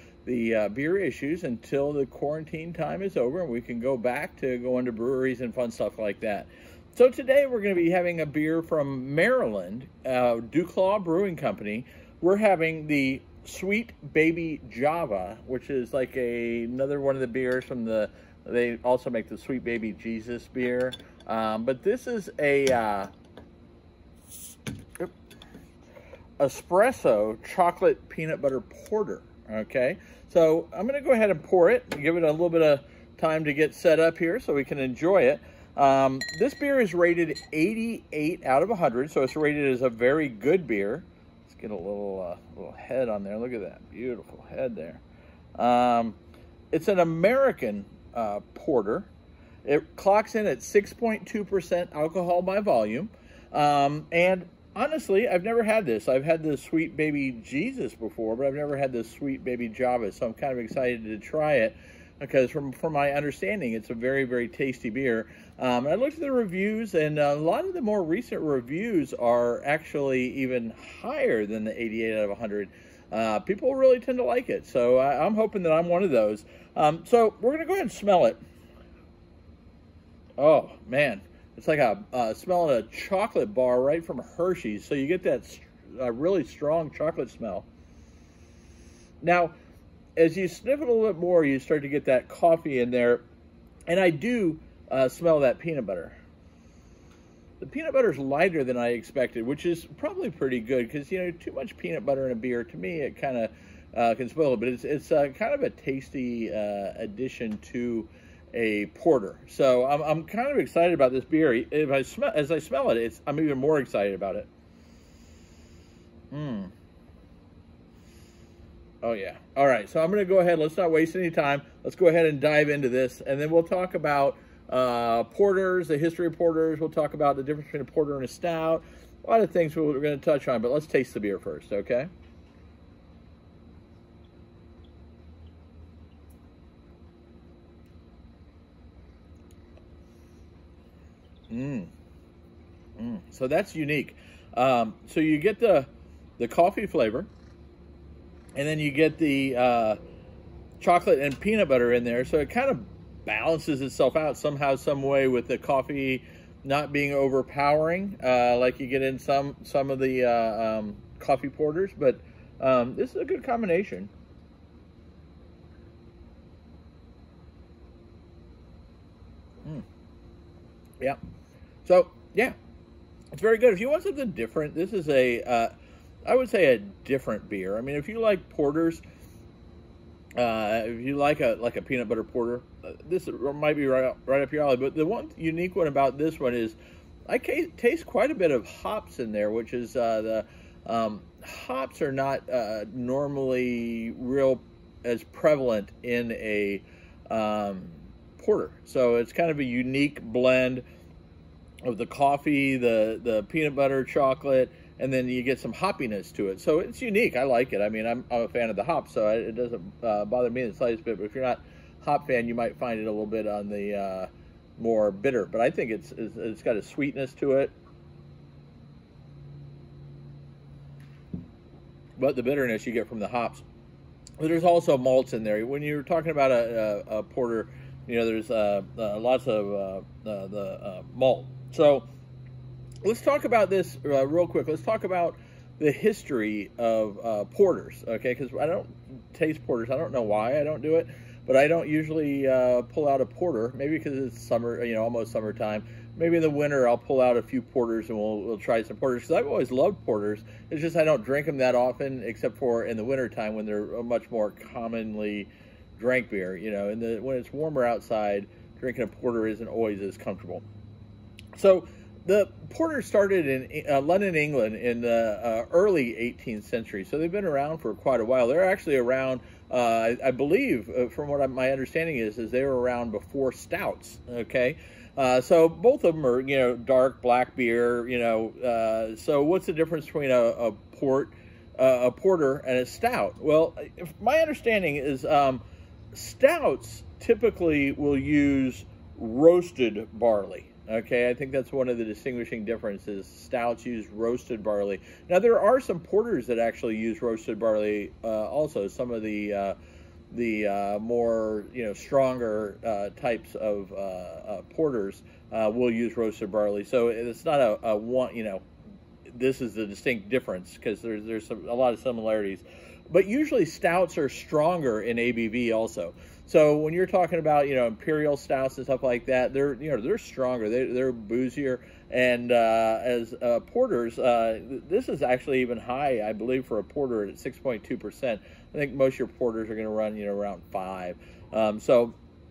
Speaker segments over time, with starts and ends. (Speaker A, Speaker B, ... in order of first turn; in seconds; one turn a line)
Speaker A: 0.2-23.1
Speaker A: 26.4-45.0
Speaker A: 45.5-46.2
Speaker A: 46.7-49.1
Speaker A: 49.6-78.4
Speaker A: 80.4-87.7
Speaker A: 89.2-89.5
Speaker A: 90.2-93.2
Speaker A: 93.9-96.2
Speaker A: 97.6-114.5
Speaker A: 116.3-116.7
Speaker A: 119.0-132.1
Speaker A: 141.5-141.9
Speaker A: 143.0-147.3
Speaker A: 148.5-150.0
Speaker A: 150.8-164.1
Speaker A: 171.8-172.6
Speaker A: 173.3-175.7
Speaker A: 176.2-179.0
Speaker A: 180.3-186.8
Speaker A: 187.3-200.8
Speaker A: 201.8-217.7
Speaker A: 222.2-223.6
Speaker A: 224.4-232.1
Speaker A: 233.0-260.6
Speaker A: 261.5-285.6
Speaker A: 286.1-299.8
Speaker A: 300.3-308.6
Speaker A: 309.3-332.1